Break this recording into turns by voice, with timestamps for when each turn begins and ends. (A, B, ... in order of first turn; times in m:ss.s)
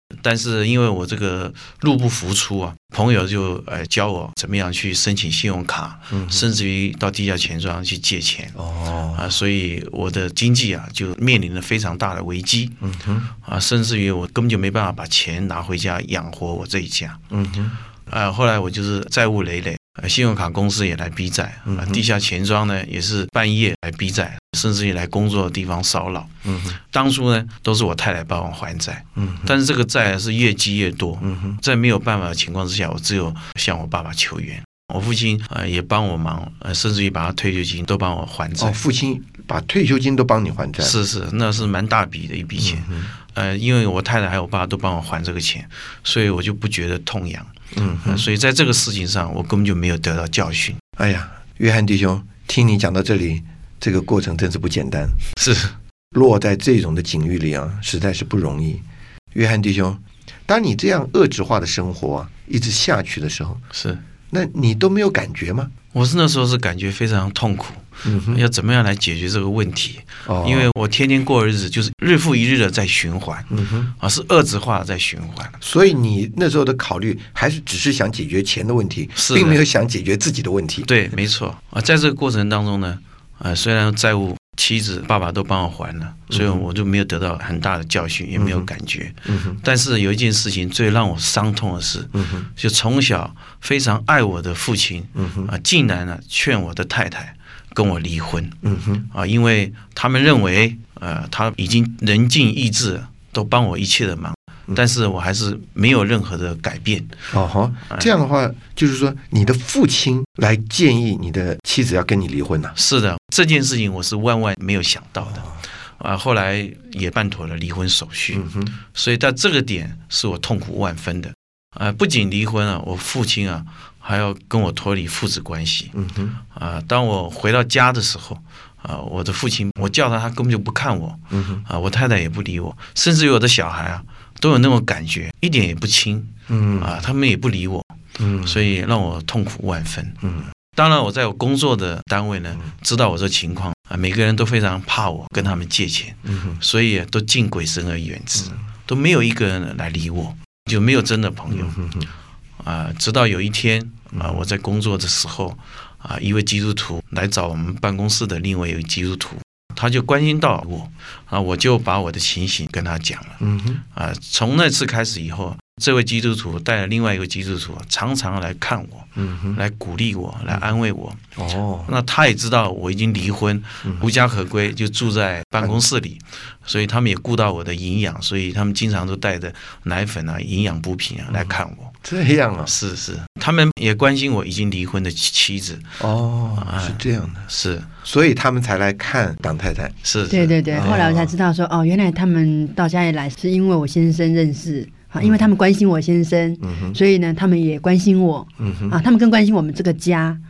0:00.2-0:08.6 A
0:06.1-0:06.4 B
0:08.6-0:09.3 B
0:09.2-0:12.8 A
0:12.8-0:13.3 B
0:13.4-0:17.2 A
0:17.3-0:17.8 B
0:18.1-0:38.8 A
0:21.7-0:22.0 B
0:26.4-0:26.8 B
0:29.2-0:29.5 B
0:31.2-0:31.6 B
0:38.6-0:41.0 B
0:40.8-0:47.5 A
0:42.6-0:43.1 B
0:47.7-0:48.3 B
0:48.0-0:50.8 A
0:51.0-0:55.2 B
0:55.4-0:55.7 A
0:56.1-1:03.6 B
1:03.7-1:04.0 A
1:04.3-1:05.7 B
1:05.9-1:15.6 A
1:08.0-1:08.4 B
1:10.3-1:10.7 B
1:13.5-1:13.9 B
1:15.6-1:20.9 B
1:19.2-1:19.6 A
1:20.8-1:38.6 A
1:26.3-1:26.6 B
1:28.4-1:28.7 B
1:29.3-1:29.6 B
1:32.2-1:32.5 B
1:35.2-1:35.5 B
1:38.6-1:39.1 B
1:39.1-1:47.1 A
1:47.3-1:52.8 B
1:52.8-2:05.9 A
1:58.3-1:58.8 B
2:05.9-2:06.4 B
2:06.5-2:31.8 A
2:11.3-2:11.6 B
2:16.5-2:17.0 B
2:18.2-2:18.6 B
2:20.2-2:20.5 B
2:26.3-2:26.6 B
2:31.5-2:32.1 B
2:32.6-2:43.4 A
2:43.4-2:43.8 B
2:43.9-2:51.2 A
2:49.2-2:49.6 B
2:51.4-2:51.9 B
2:51.9-3:01.9 A
2:55.6-2:55.8 B
3:01.3-3:02.7 B
3:02.6-3:06.0 A
3:06.0-3:07.5 B
3:06.6-3:07.9 A
3:08.0-3:10.0 B
3:10.0-3:10.9 A
3:10.3-3:20.4 C
3:10.6-3:11.3 B
3:16.6-3:17.0 B
3:18.6-3:19.0 B